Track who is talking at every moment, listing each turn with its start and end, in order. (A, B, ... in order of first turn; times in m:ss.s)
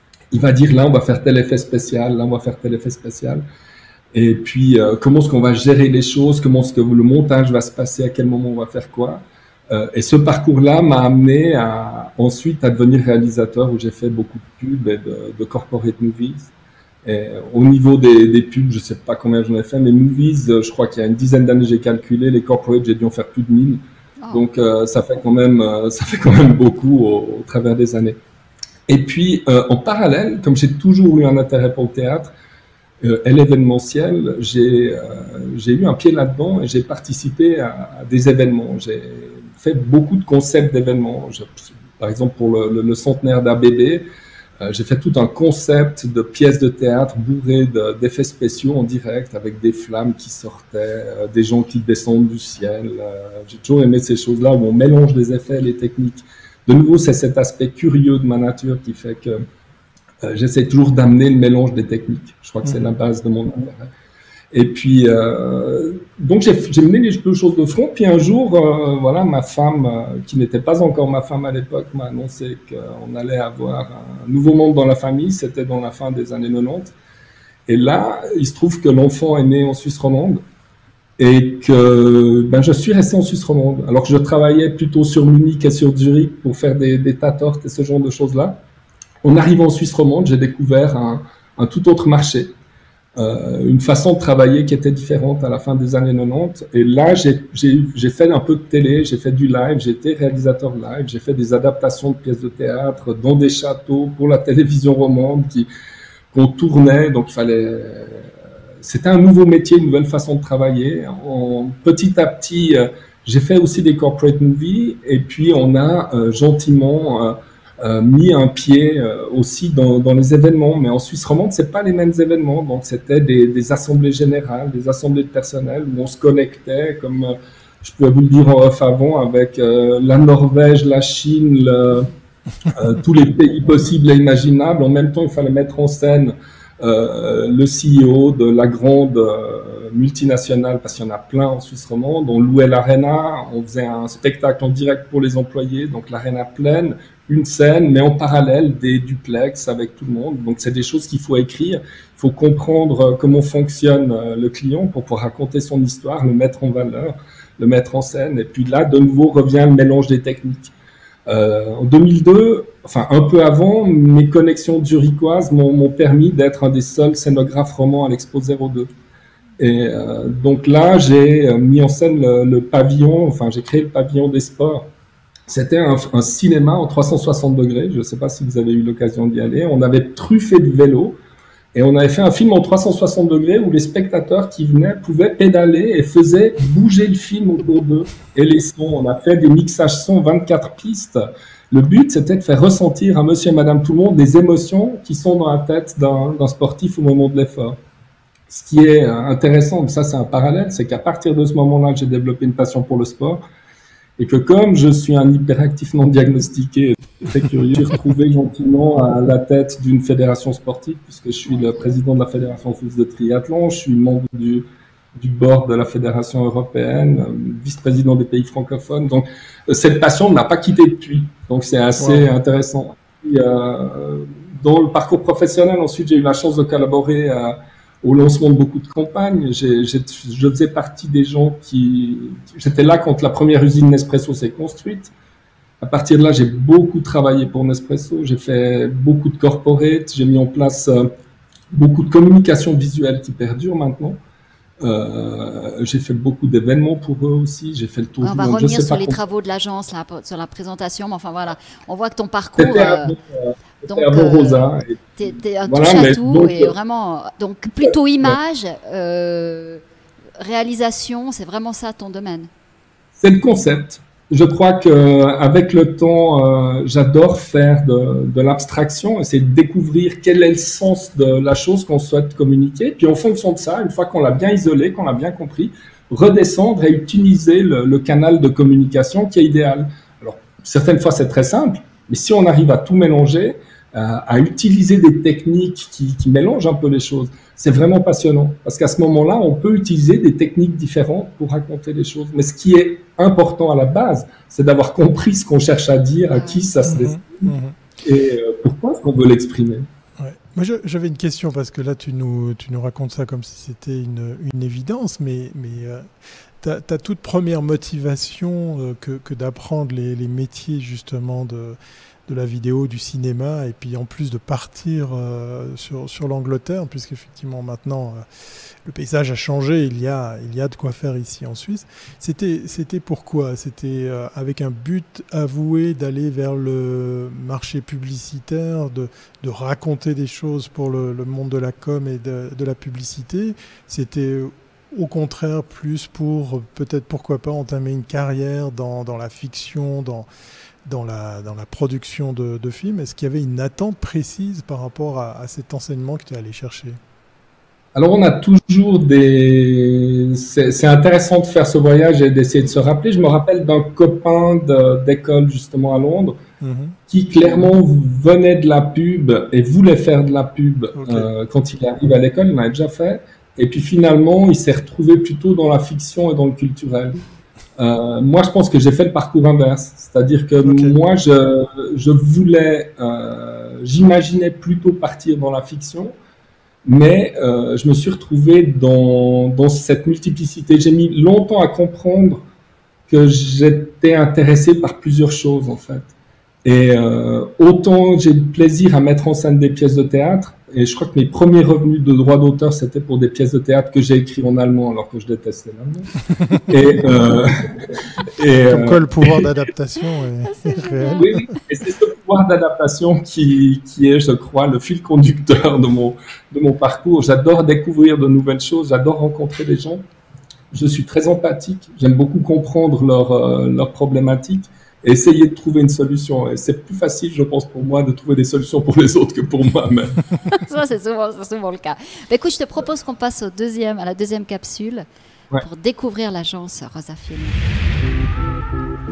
0:00.3-0:03.4 A
0:04.1-0:16.5 A
0:17.0-0:28.2 A
0:28.9-0:32.3 A
0:33.0-0:44.0 A
0:44.6-0:59.4 A
1:00.2-1:03.9 A
1:04.5-1:16.9 A
1:17.7-1:20.4 A
1:21.2-1:28.6 A
1:29.2-1:32.5 A
1:33.2-1:45.7 A
1:46.3-1:48.3 A
1:48.8-2:12.1 A
2:12.7-2:40.7 A
2:41.3-2:48.9 A
2:49.6-2:54.9 A
2:55.5-3:01.2 A
3:01.7-3:11.2 A
3:11.7-3:17.8 A
3:18.5-3:23.4 A
3:24.2-3:55.1 A
3:42.0-3:42.3 B
3:55.8-4:01.1 A
4:01.7-4:04.2 A
4:04.8-4:09.2 A
4:08.2-4:13.1 C
4:12.6-4:16.7 A
4:13.8-4:19.8 C
4:17.8-4:18.4 A
4:20.4-4:22.5 C
4:23.2-4:59.9 A
4:56.3-4:56.7 C
4:56.8-4:57.8 B
5:00.2-5:06.1 B
5:06.6-5:18.2 B
5:18.8-5:40.3 B
5:40.9-5:47.0 B
5:47.9-5:56.4 A
5:56.6-5:57.0 B
5:57.1-6:07.2 A
6:00.9-6:01.3 B
6:07.8-6:16.1 A
6:10.6-6:11.0 B
6:16.8-6:22.4 A
6:23.1-6:26.1 A
6:26.6-6:36.1 A
6:36.7-6:37.7 A
6:38.3-6:39.5 A
6:38.6-6:41.5 B
6:40.4-6:41.5 C
6:41.2-6:50.0 A
6:50.7-7:00.3 A
7:00.5-7:05.0 C
7:05.6-7:07.6 C